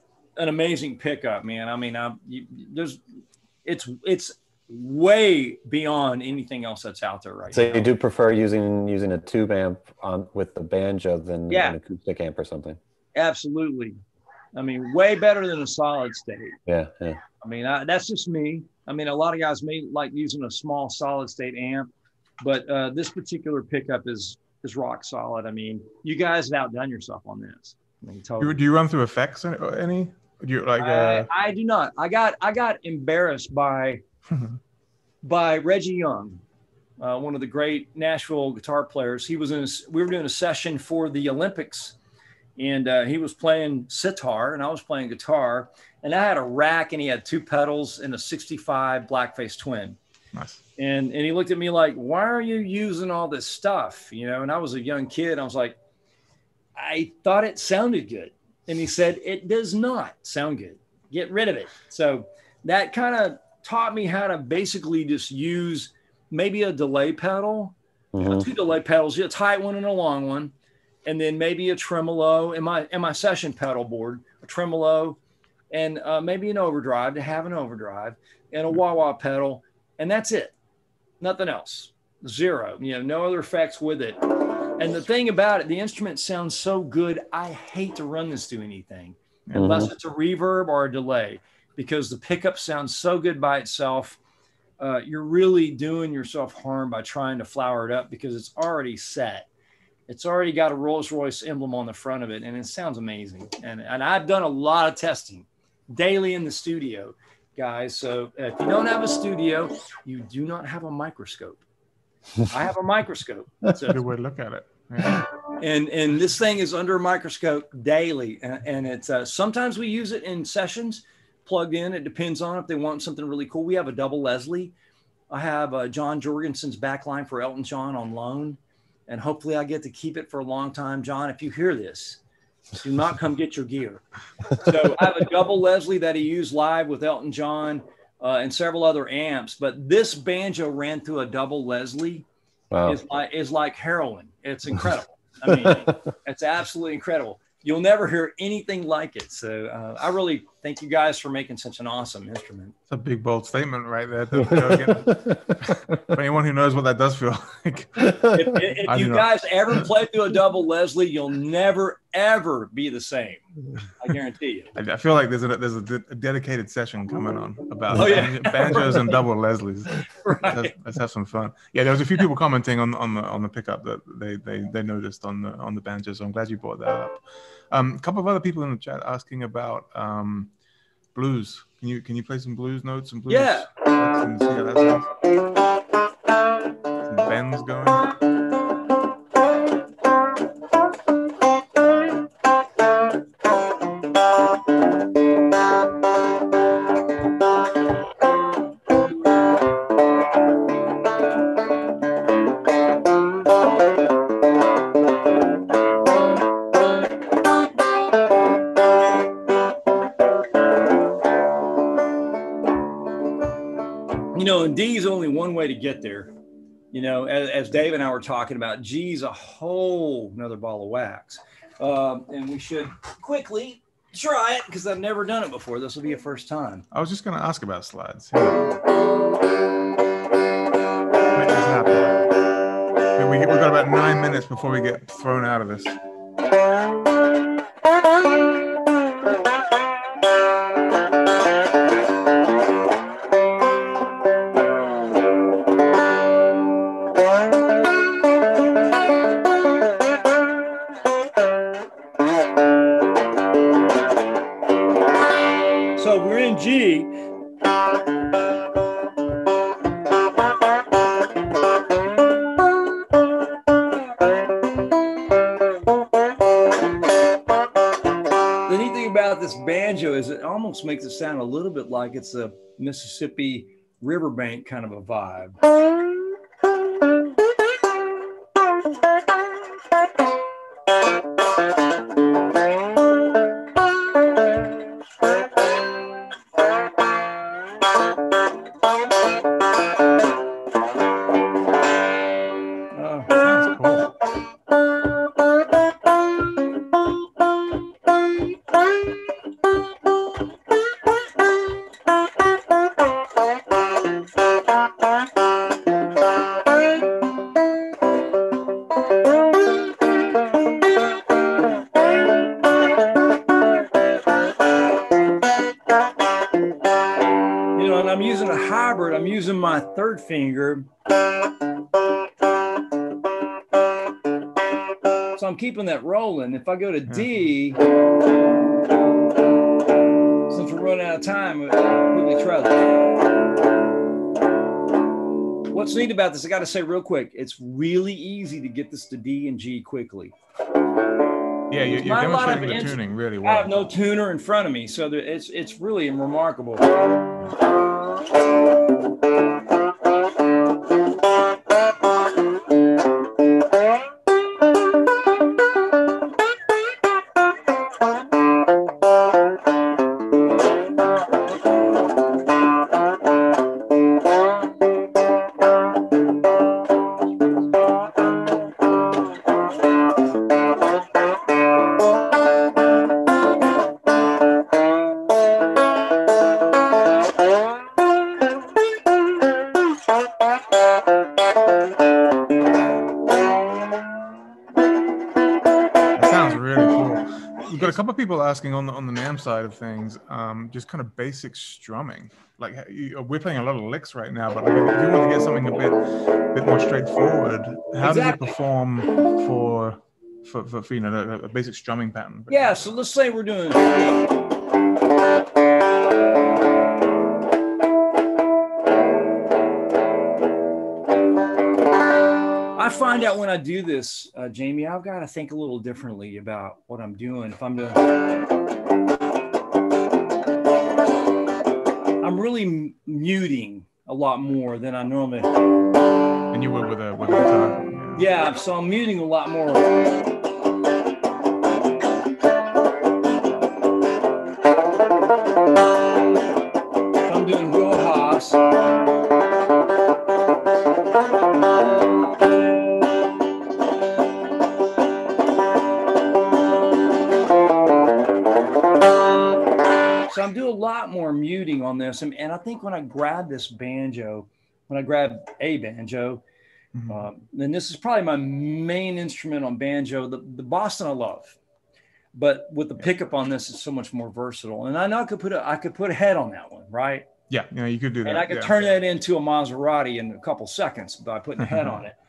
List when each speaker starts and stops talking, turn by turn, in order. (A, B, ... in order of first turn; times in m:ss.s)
0:00.4-0:03.0 A
0:03.6-0:07.9 A
0:07.5-0:12.8 B
0:11.5-0:11.8 A
0:13.2-0:14.0 A
0:14.6-0:16.6 A
0:16.7-0:17.2 B
0:17.4-0:28.6 A
0:28.4-0:31.3 C
0:30.8-0:34.0 A
0:34.3-0:34.6 C
0:35.2-0:36.4 A
0:37.0-0:42.0 A
0:42.6-0:50.0 A
0:50.3-0:50.6 C
0:50.8-0:55.8 A
0:56.8-1:10.5 A
1:08.1-1:08.5 B
1:11.0-1:15.2 A
1:15.7-1:20.6 A
1:21.2-1:24.2 A
1:24.8-1:34.2 A
1:29.5-1:29.8 C
1:29.5-1:29.9 B
1:34.8-1:39.5 A
1:40.1-1:51.6 A
1:52.5-1:54.0 A
1:53.9-1:55.3 C
1:55.6-2:04.7 A
2:05.3-2:12.2 A
2:12.8-2:22.3 A
2:22.7-2:23.0 B
2:22.9-2:32.8 A
2:32.9-2:39.9 C
2:34.3-2:36.0 B
2:38.2-2:44.7 A
2:44.8-3:00.5 C
2:47.9-2:49.1 A
2:50.2-2:50.7 A
3:01.2-3:05.1 C
3:03.3-3:03.7 A
3:07.1-3:08.1 C
3:34.3-3:36.3 A
3:36.9-3:46.8 A
3:46.9-3:48.7 C
3:51.3-3:52.2 C
3:53.2-3:56.0 C
4:16.0-4:17.2 A
4:28.7-4:35.6 A
4:52.9-4:53.5 A
4:53.3-4:54.1 C
5:17.8-5:20.9 A
5:25.4-5:27.8 A
5:30.5-5:33.0 A
5:35.7-5:40.4 A
5:41.7-5:43.9 C
5:41.8-5:46.8 A
6:26.2-6:42.8 C
6:38.0-6:38.6 A
6:42.5-6:44.0 A
6:52.8-6:58.0 A
7:02.2-7:05.5 A
7:06.5-7:08.3 C
7:08.2-7:10.0 A
7:17.2-7:18.6 A
7:30.3-7:36.4 A
7:37.0-7:37.2 C
7:37.1-7:41.6 A
7:42.3-7:47.3 A
7:47.5-7:48.9 C
7:48.2-7:52.2 A
7:51.6-7:51.9 C